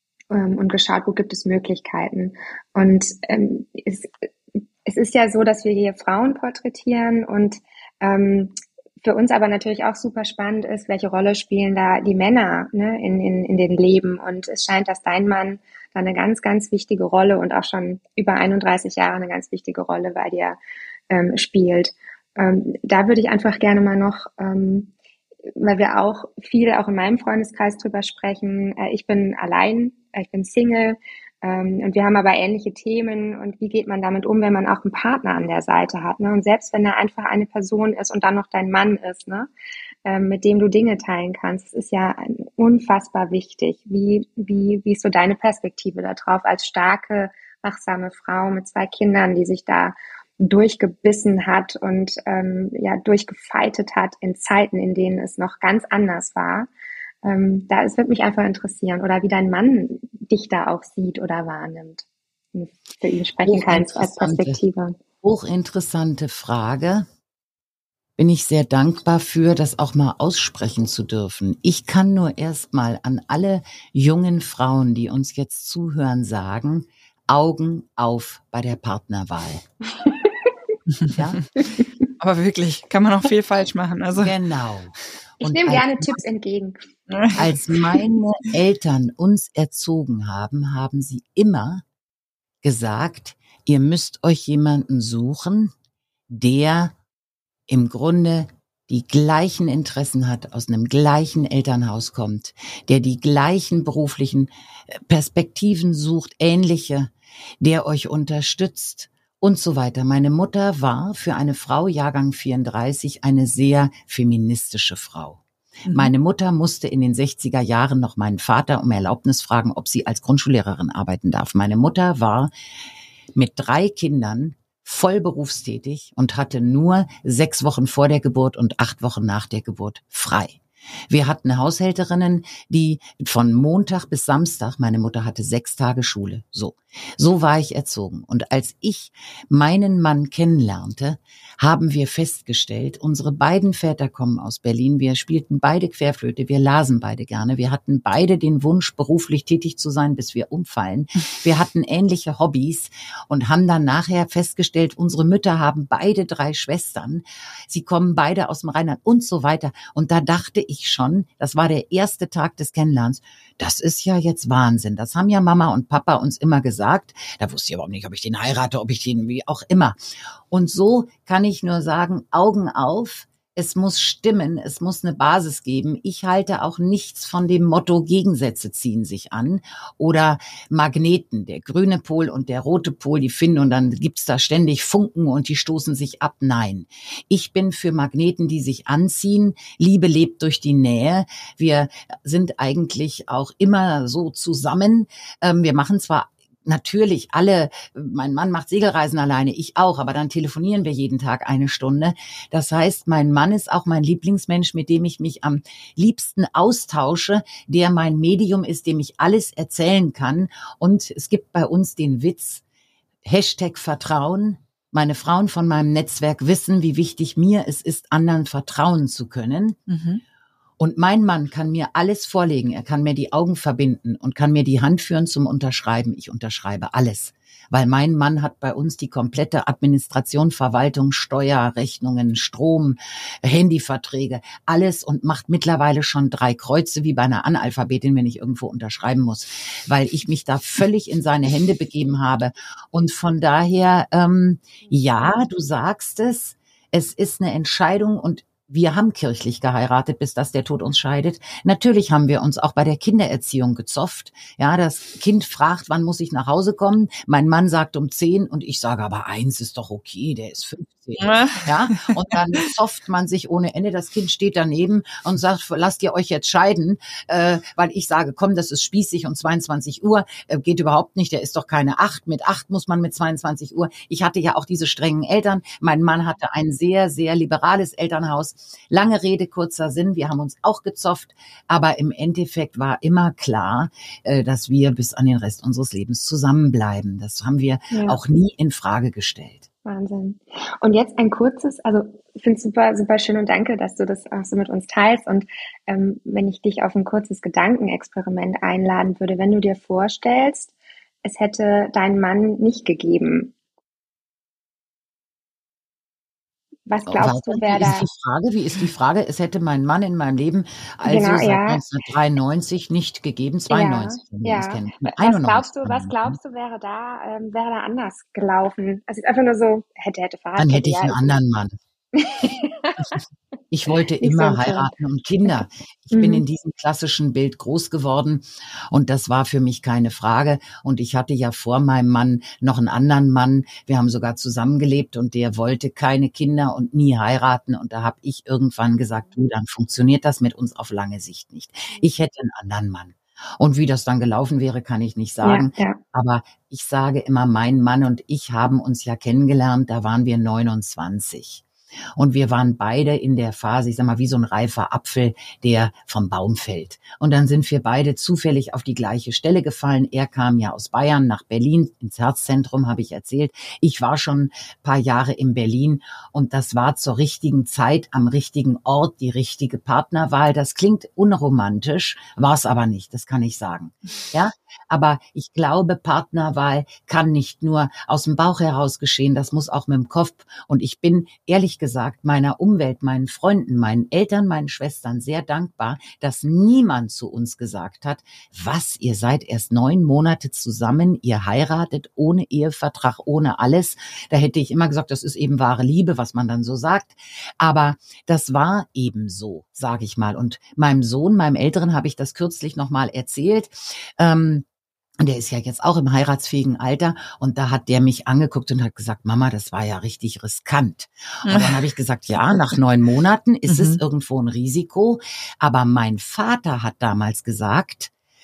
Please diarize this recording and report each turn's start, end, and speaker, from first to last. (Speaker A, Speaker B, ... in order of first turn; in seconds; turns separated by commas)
Speaker A: 0.3-20.6, Speaker A: 21.1-24.9, Speaker A: 25.4-39.5, Speaker A: 40.0-56.7, Speaker A: 57.2-65.0, Speaker B: 63.4-64.6, Speaker B: 65.2-67.1, Speaker B: 68.2-79.6, Speaker A: 80.0-80.5, Speaker C: 81.0-81.4, Speaker B: 81.1-81.4, Speaker C: 82.2-84.3, Speaker B: 84.1-86.2, Speaker A: 85.4-86.8, Speaker C: 87.1-87.4, Speaker B: 87.3-91.8, Speaker B: 92.6-95.7, Speaker B: 96.3-96.9, Speaker B: 97.7-122.5, Speaker C: 115.8-116.1, Speaker B: 123.3-169.9, Speaker B: 170.5-212.6, Speaker B: 213.2-219.8, Speaker C: 219.9-220.2, Speaker B: 220.8-289.6, Speaker C: 261.2-262.6, Speaker A: 287.9-288.2, Speaker A: 289.8-300.7, Speaker A: 301.2-303.5, Speaker A: 306.9-308.1, Speaker B: 307.1-316.4, Speaker A: 311.0-311.8, Speaker A: 313.7-321.4, Speaker B: 320.6-321.7, Speaker A: 322.1-323.1, Speaker B: 323.7-351.6, Speaker A: 324.2-324.9, Speaker A: 326.1-326.4, Speaker A: 345.4-346.0, Speaker B: 352.2-404.6, Speaker B: 405.2-418.1, Speaker C: 411.4-411.8, Speaker C: 413.7-414.0